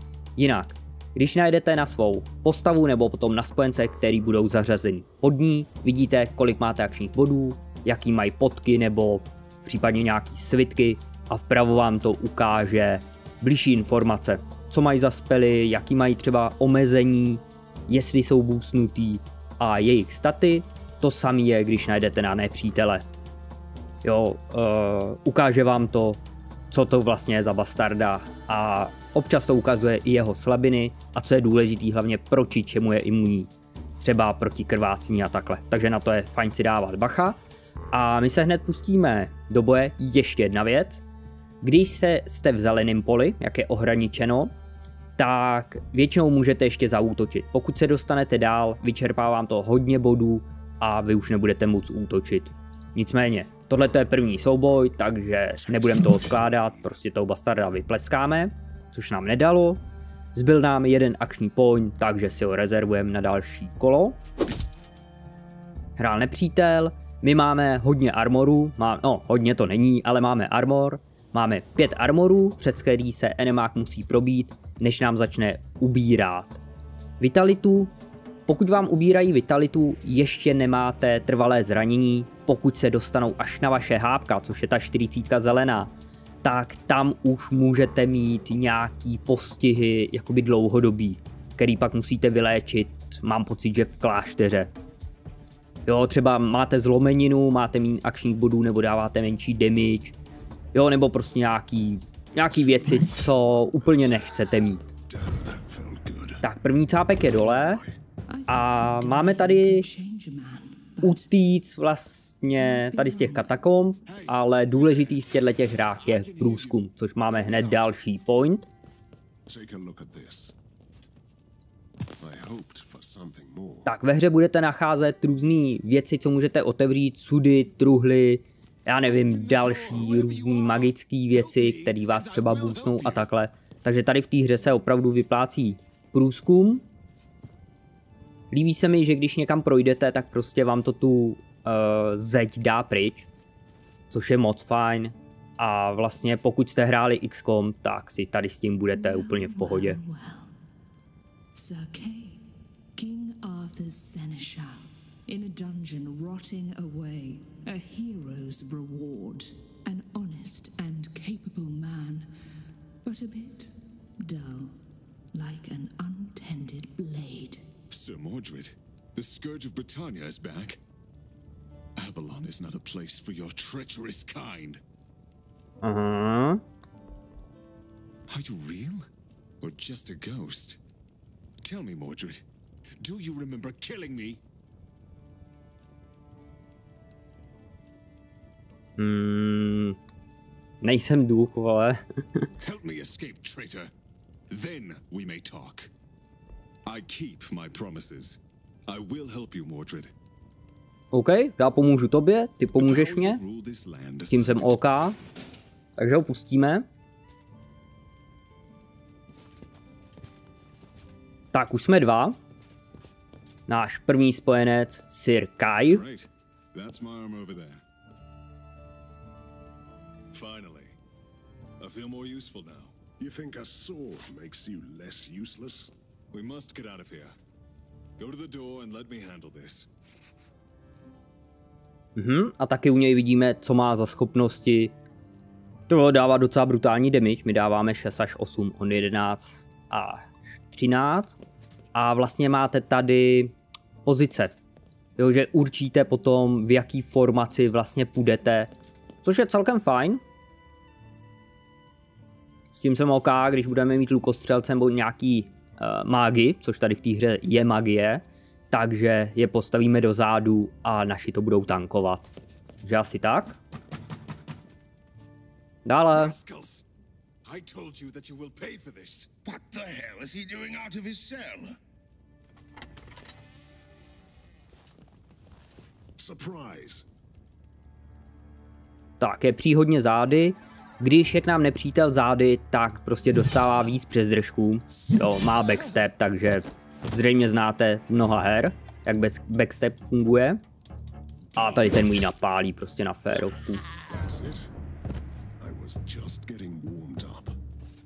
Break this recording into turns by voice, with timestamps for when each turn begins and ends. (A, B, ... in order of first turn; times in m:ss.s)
0:00.4-0:23.0 A
0:24.0-0:33.5 A
0:34.0-0:37.4 A
0:37.9-0:41.0 A
0:41.6-0:44.5 A
0:45.2-0:59.8 A
0:55.8-0:56.8 B
1:00.3-1:04.2 A
1:06.0-1:16.6 A
1:17.2-1:17.9 A
1:18.5-1:25.9 A
1:26.4-1:34.7 A
1:35.9-1:40.2 A
1:40.7-1:44.9 A
1:42.5-1:44.2 B
1:45.1-1:46.4 B
1:46.4-1:47.8 A
1:47.3-1:48.0 B
1:48.3-1:51.3 C
1:48.5-1:49.9 A
1:51.0-1:58.7 A
1:52.6-1:53.5 C
1:54.1-1:55.2 D
1:56.0-1:56.8 D
1:59.5-2:00.6 B
2:02.2-2:03.9 B
2:03.8-2:16.8 A
2:09.2-2:13.3 D
2:18.5-2:23.3 A
2:24.1-2:30.0 A
2:28.9-2:30.5 C
2:31.5-2:32.4 C
2:32.9-2:42.3 C
2:43.0-2:44.7 C
2:45.3-2:47.7 C
2:47.9-2:50.8 D
2:52.0-2:54.8 D
2:55.8-2:56.6 A
2:58.3-2:59.1 D
2:59.6-3:00.8 D
3:01.6-3:02.4 D
3:03.0-3:04.4 D
3:09.0-3:10.0 A
3:10.8-3:12.5 A
3:12.6-3:13.9 D
3:14.5-3:15.9 D
3:16.8-3:20.1 D
3:21.1-3:23.4 A
3:22.7-3:24.8 D
3:24.3-3:25.2 A
3:26.0-3:26.8 A
3:31.5-3:32.4 A
3:33.7-3:36.0 A
3:35.9-3:37.8 D
3:40.3-3:41.0 D
3:41.8-3:42.9 D
3:43.2-3:45.9 B
3:46.3-3:47.3 D
3:48.2-3:49.9 D
3:52.2-3:54.9 A
3:55.9-4:01.3 A
4:01.9-4:03.5 A
4:04.0-4:04.5 A
4:05.2-4:08.7 A
4:09.2-4:10.2 A
4:12.7-4:22.3 A
4:22.8-4:23.6 A
4:25.8-4:26.3 A
4:26.1-4:26.8 D
4:27.4-4:29.3 D
4:29.4-4:31.8 E
4:36.2-4:37.0 B
4:39.2-4:50.6 A
4:51.6-4:52.0 D
4:51.6-4:53.8 A
4:54.1-4:54.7 B
4:55.6-4:57.6 B